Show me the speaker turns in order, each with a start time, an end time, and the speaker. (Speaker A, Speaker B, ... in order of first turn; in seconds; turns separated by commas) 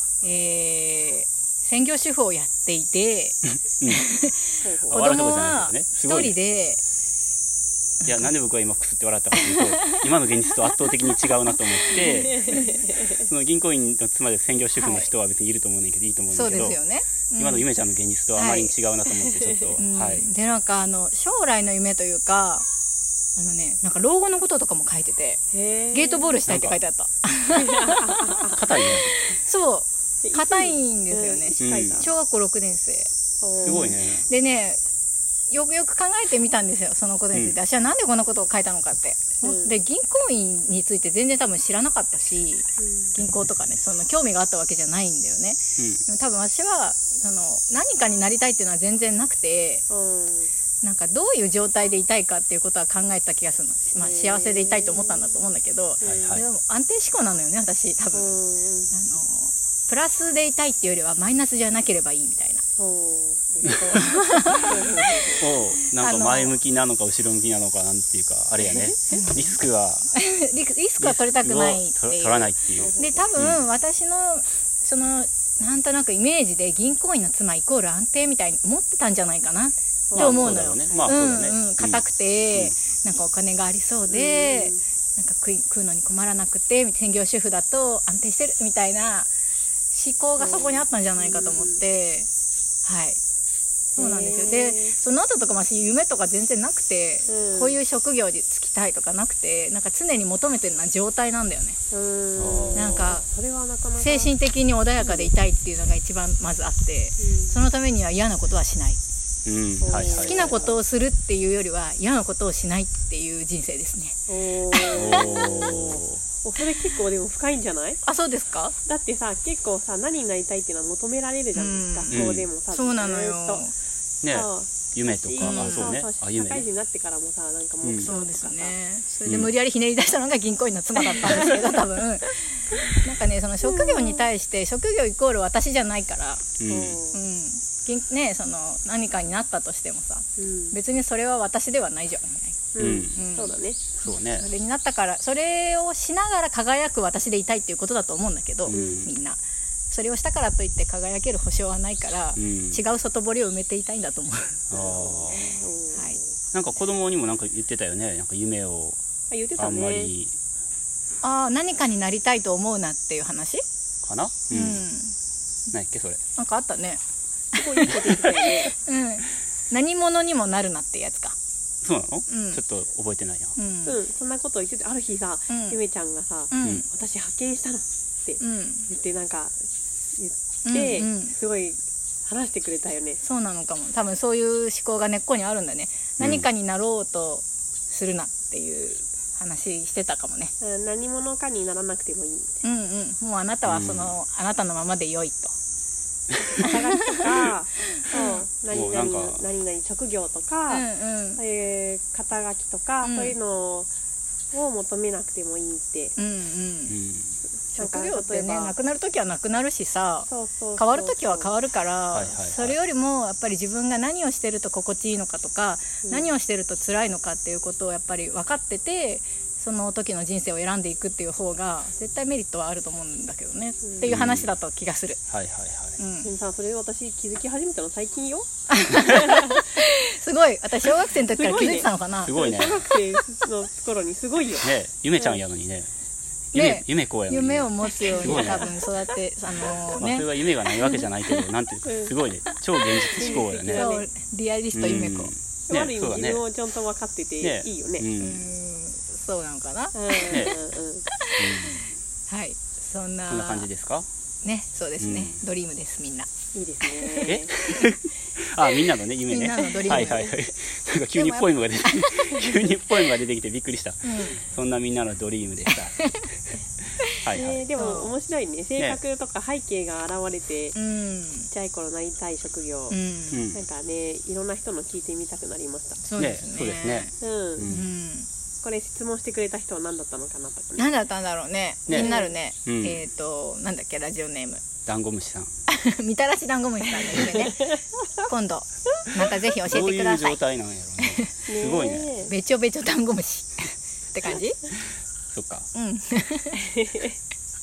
Speaker A: 0.2-6.8, Speaker B: 4.6-5.0, Speaker C: 4.9-6.3, Speaker A: 8.0-8.3, Speaker C: 8.0-16.8, Speaker A: 9.3-12.8, Speaker B: 12.0-13.2, Speaker A: 14.8-15.1, Speaker A: 16.3-17.7, Speaker C: 17.4-20.3, Speaker A: 18.4-18.7, Speaker B: 19.1-19.8, Speaker A: 19.8-22.6, Speaker A: 23.4-28.1, Speaker B: 25.5-26.4, Speaker C: 26.5-26.8, Speaker B: 27.5-29.2, Speaker C: 28.5-29.1, Speaker A: 29.4-33.1, Speaker B: 30.2-32.1, Speaker C: 31.6-32.1, Speaker B: 33.4-34.0, Speaker C: 33.6-34.2, Speaker A: 33.6-34.8, Speaker A: 35.5-49.8, Speaker B: 39.4-39.8, Speaker B: 42.8-43.1, Speaker C: 45.8-46.0, Speaker B: 49.9-50.5, Speaker A: 50.8-58.4, Speaker B: 54.0-55.4, Speaker B: 56.0-56.4, Speaker C: 56.0-56.4, Speaker B: 58.1-58.9, Speaker A: 58.9-62.6, Speaker B: 62.8-64.0, Speaker A: 63.6-65.0, Speaker B: 64.6-65.5, Speaker C: 65.4-70.1, Speaker A: 65.8-66.6, Speaker B: 68.7-69.2, Speaker A: 69.1-69.5, Speaker A: 70.1-89.3, Speaker C: 71.0-73.6, Speaker B: 72.7-73.3, Speaker B: 80.1-81.3, Speaker C: 80.2-82.8, Speaker B: 84.1-84.8, Speaker A: 89.9-92.3, Speaker B: 90.4-91.8, Speaker A: 92.8-93.2, Speaker B: 93.9-95.0, Speaker A: 94.0-101.8, Speaker B: 97.3-97.8, Speaker B: 101.9-104.3, Speaker C: 102.4-103.2, Speaker A: 102.7-103.3, Speaker A: 104.0-109.0, Speaker B: 105.0-105.3, Speaker B: 107.2-107.5, Speaker C: 109.5-110.5, Speaker B: 109.8-110.8, Speaker A: 110.1-114.2, Speaker B: 114.3-118.0, Speaker A: 114.7-115.7, Speaker C: 114.9-116.2, Speaker A: 118.0-118.7, Speaker B: 118.9-123.6, Speaker A: 121.5-123.7, Speaker C: 122.1-122.5, Speaker C: 124.2-126.6, Speaker B: 124.2-128.7, Speaker A: 125.4-126.0, Speaker C: 127.8-128.1, Speaker A: 128.0-136.5, Speaker C: 129.2-129.5, Speaker B: 131.0-131.7, Speaker B: 133.6-134.3, Speaker C: 136.6-137.0, Speaker B: 136.7-137.2, Speaker A: 137.1-149.4, Speaker B: 140.4-140.8, Speaker B: 142.7-143.9, Speaker C: 142.8-143.2, Speaker C: 144.0-144.5, Speaker C: 148.7-149.1, Speaker B: 148.7-149.1, Speaker A: 149.9-154.7, Speaker C: 152.3-152.8, Speaker C: 154.7-155.5, Speaker B: 154.7-156.3, Speaker C: 156.5-159.0, Speaker B: 159.3-160.1, Speaker C: 159.6-160.3, Speaker A: 161.2-163.6, Speaker C: 164.0-164.8, Speaker A: 164.5-165.1, Speaker C: 165.7-166.2, Speaker A: 166.4-167.0, Speaker B: 167.5-168.8, Speaker A: 168.2-171.3, Speaker C: 171.8-173.6, Speaker A: 172.3-172.6, Speaker A: 173.6-174.0, Speaker B: 173.8-179.6, Speaker A: 175.5-175.8, Speaker A: 176.5-176.9, Speaker A: 178.4-178.9, Speaker B: 180.1-183.2, Speaker A: 180.7-181.3, Speaker A: 183.2-190.5, Speaker C: 186.2-186.4, Speaker B: 190.6-192.6, Speaker A: 192.6-195.5, Speaker C: 193.6-194.1, Speaker B: 196.4-203.9, Speaker A: 196.6-197.2, Speaker A: 198.0-198.4, Speaker C: 198.7-199.4, Speaker A: 200.7-201.4, Speaker A: 203.0-203.3, Speaker B: 204.5-206.1, Speaker A: 206.2-206.9, Speaker C: 206.9-207.4, Speaker B: 207.7-208.7, Speaker A: 207.7-225.2, Speaker B: 210.3-211.5, Speaker C: 212.1-212.8, Speaker B: 216.0-216.3, Speaker B: 223.8-224.1, Speaker C: 224.1-224.5, Speaker C: 225.3-226.0, Speaker A: 226.0-226.3, Speaker B: 226.2-229.6, Speaker A: 228.7-232.8, Speaker B: 231.2-235.4, Speaker C: 232.2-232.8, Speaker C: 234.6-235.9, Speaker C: 236.5-238.8, Speaker A: 236.5-240.3, Speaker B: 238.0-238.8, Speaker C: 240.0-243.9, Speaker B: 241.8-242.2, Speaker A: 243.2-245.3, Speaker B: 243.2-244.1, Speaker C: 244.7-246.4, Speaker B: 245.7-248.1, Speaker C: 247.4-248.5, Speaker A: 248.2-250.6, Speaker B: 249.9-251.0, Speaker C: 250.3-250.6, Speaker A: 251.1-253.7, Speaker C: 251.4-251.9, Speaker C: 253.3-254.1, Speaker A: 254.4-256.3, Speaker C: 255.0-255.4, Speaker B: 256.5-257.5, Speaker A: 256.9-257.3, Speaker C: 257.2-266.2, Speaker A: 259.3-260.3, Speaker B: 259.9-260.2, Speaker A: 261.1-262.5, Speaker A: 264.0-264.4, Speaker A: 265.9-266.3, Speaker C: 267.2-267.6, Speaker B: 267.3-270.8, Speaker A: 267.8-268.1, Speaker A: 270.7-271.5, Speaker B: 271.5-273.0, Speaker A: 272.9-273.4, Speaker C: 273.3-273.6, Speaker B: 273.5-276.0, Speaker A: 276.0-278.3, Speaker C: 276.2-277.8, Speaker B: 277.2-277.7, Speaker B: 278.6-280.9, Speaker A: 280.8-284.6, Speaker C: 281.9-283.0, Speaker B: 281.9-282.3, Speaker C: 284.9-285.5, Speaker A: 285.7-290.4, Speaker B: 287.0-287.8, Speaker C: 289.7-292.1, Speaker A: 291.0-291.3, Speaker B: 291.5-292.3, Speaker A: 292.3-294.6, Speaker C: 295.3-295.7, Speaker A: 295.7-296.7, Speaker B: 296.6-297.1